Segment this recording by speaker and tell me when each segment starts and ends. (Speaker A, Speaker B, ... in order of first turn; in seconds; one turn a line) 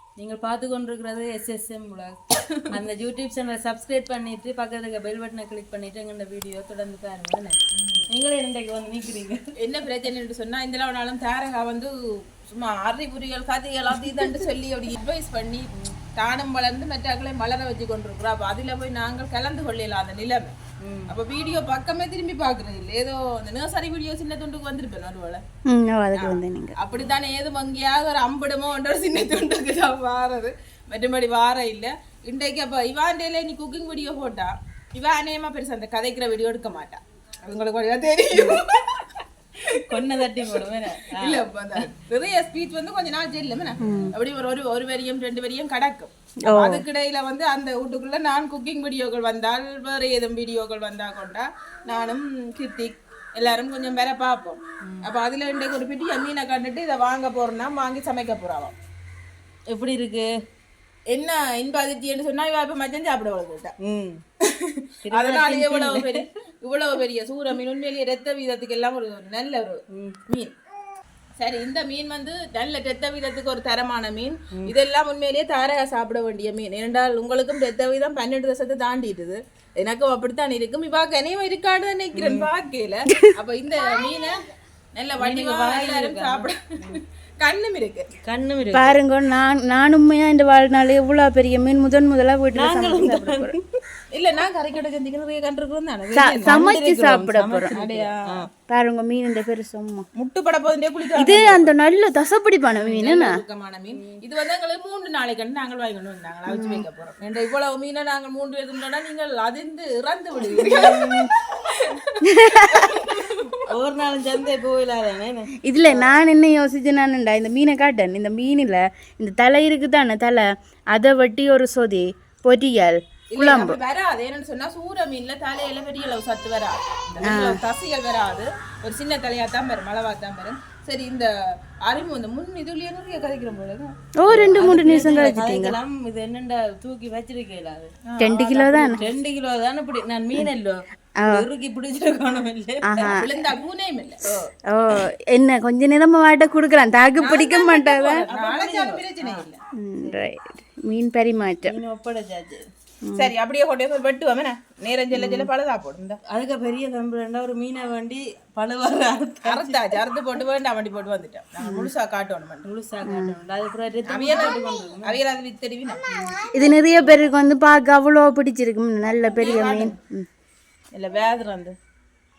Speaker A: 0.2-9.4
Speaker B: 7.7-8.1
Speaker B: 9.6-20.6
Speaker A: 20.8-21.1
Speaker B: 21.1-25.4
Speaker C: 25.7-26.8
Speaker B: 26.1-58.7
Speaker A: 39.6-41.9
Speaker C: 43.8-44.1
Speaker C: 46.5-46.8
Speaker A: 59.7-60.3
Speaker B: 61.1-63.7
Speaker A: 63.8-64.2
Speaker B: 64.4-70.5
Speaker A: 65.0-66.2
Speaker A: 69.9-70.2
Speaker B: 71.4-88.1
Speaker A: 82.1-82.5
Speaker A: 85.2-87.0
Speaker A: 88.2-89.0
Speaker C: 88.7-93.5
Speaker A: 92.5-93.6
Speaker B: 94.1-96.8
Speaker C: 96.1-97.7
Speaker A: 96.7-98.5
Speaker B: 97.7-98.5
Speaker C: 98.7-100.0
Speaker B: 100.1-101.7
Speaker C: 101.1-103.4
Speaker B: 102.8-113.6
Speaker A: 103.9-104.2
Speaker C: 106.5-106.8
Speaker C: 110.5-111.3
Speaker C: 112.2-113.0
Speaker A: 113.6-115.5
Speaker C: 115.6-123.8
Speaker B: 123.3-131.3
Speaker C: 127.2-127.6
Speaker B: 131.8-133.9
Speaker C: 134.2-135.8
Speaker A: 134.3-137.9
Speaker B: 138.1-139.0
Speaker C: 138.2-139.0
Speaker A: 138.6-143.1
Speaker C: 141.2-141.4
Speaker C: 142.8-143.3
Speaker B: 143.0-144.2
Speaker C: 144.7-148.2
Speaker B: 147.2-149.6
Speaker A: 148.2-149.4
Speaker C: 149.7-151.8
Speaker A: 151.7-152.6
Speaker B: 153.2-156.2
Speaker A: 156.3-160.0
Speaker B: 159.4-162.7
Speaker A: 162.7-165.2
Speaker C: 163.0-163.3
Speaker B: 164.1-166.0
Speaker A: 166.1-166.4
Speaker C: 166.5-170.3
Speaker B: 169.3-169.9
Speaker B: 170.9-171.8